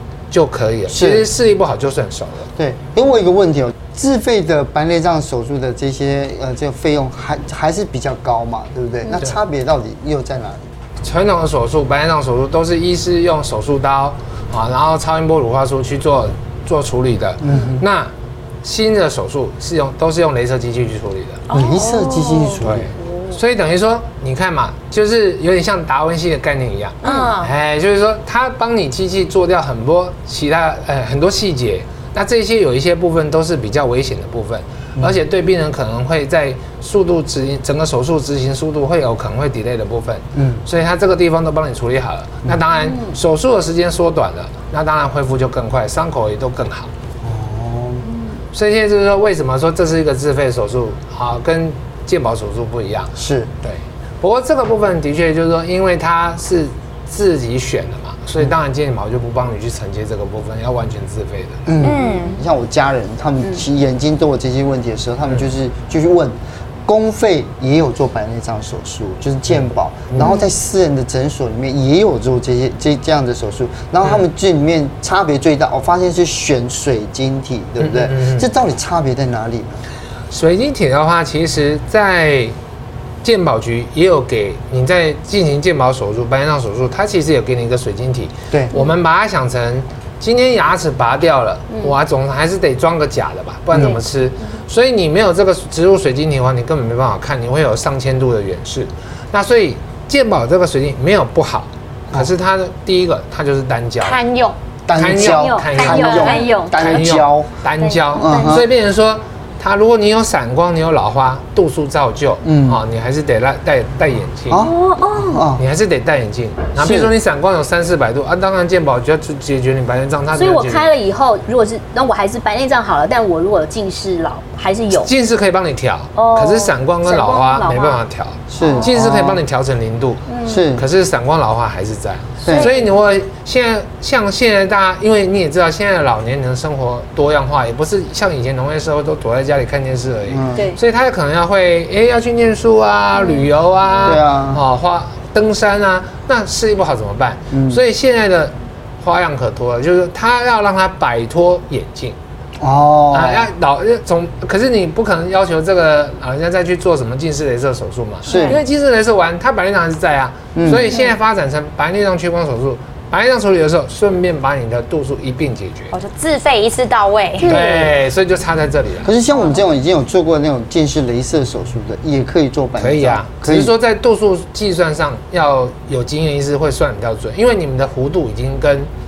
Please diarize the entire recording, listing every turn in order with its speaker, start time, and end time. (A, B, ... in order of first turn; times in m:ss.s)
0:00.3-0:02.5 A
0:00.9-0:01.3 B
0:02.6-0:10.6 B
0:11.0-0:18.1 A
0:17.4-0:17.8 B
0:18.6-0:21.4 A
0:21.5-0:22.6 C
0:21.5-0:22.9 B
0:22.6-0:46.9 A
0:27.0-0:27.5 C
0:40.4-0:40.6 B
0:42.8-0:43.2 D
0:47.2-0:48.1 B
0:48.0-0:48.4 D
0:48.5-1:01.6 A
0:53.2-0:53.5 B
1:01.6-1:19.8 B
1:01.8-1:02.4 C
1:09.5-1:10.4 A
1:17.8-1:18.5 A
1:20.3-1:22.5 A
1:23.2-1:44.2 A
1:28.5-1:28.8 B
1:44.0-1:44.6 C
1:44.9-1:47.5 B
1:44.9-1:54.7 A
1:45.2-1:47.1 D
1:45.7-1:46.5 C
1:47.8-1:48.7 D
1:48.1-1:48.7 B
1:52.4-1:52.8 B
1:54.5-1:55.6 B
1:54.6-1:55.5 D
1:55.6-2:00.9 A
1:56.8-1:57.1 B
2:00.3-2:05.1 D
2:04.9-2:32.2 A
2:06.1-2:08.0 D
2:08.5-2:09.4 B
2:08.6-2:08.9 D
2:10.3-2:10.7 D
2:10.4-2:10.9 B
2:12.4-2:12.7 B
2:12.4-2:13.0 D
2:20.3-2:20.7 B
2:20.5-2:20.8 D
2:24.0-2:24.6 B
2:27.5-2:27.8 B
2:32.6-2:33.5 B
2:33.1-2:45.9 A
2:38.2-2:38.6 C
2:38.2-2:38.6 B
2:40.5-2:41.0 B
2:45.9-2:47.6 C
2:47.4-2:49.1 A
2:47.4-2:47.7 D
2:47.5-2:47.9 B
2:49.0-2:53.7 B
2:52.8-2:58.9 A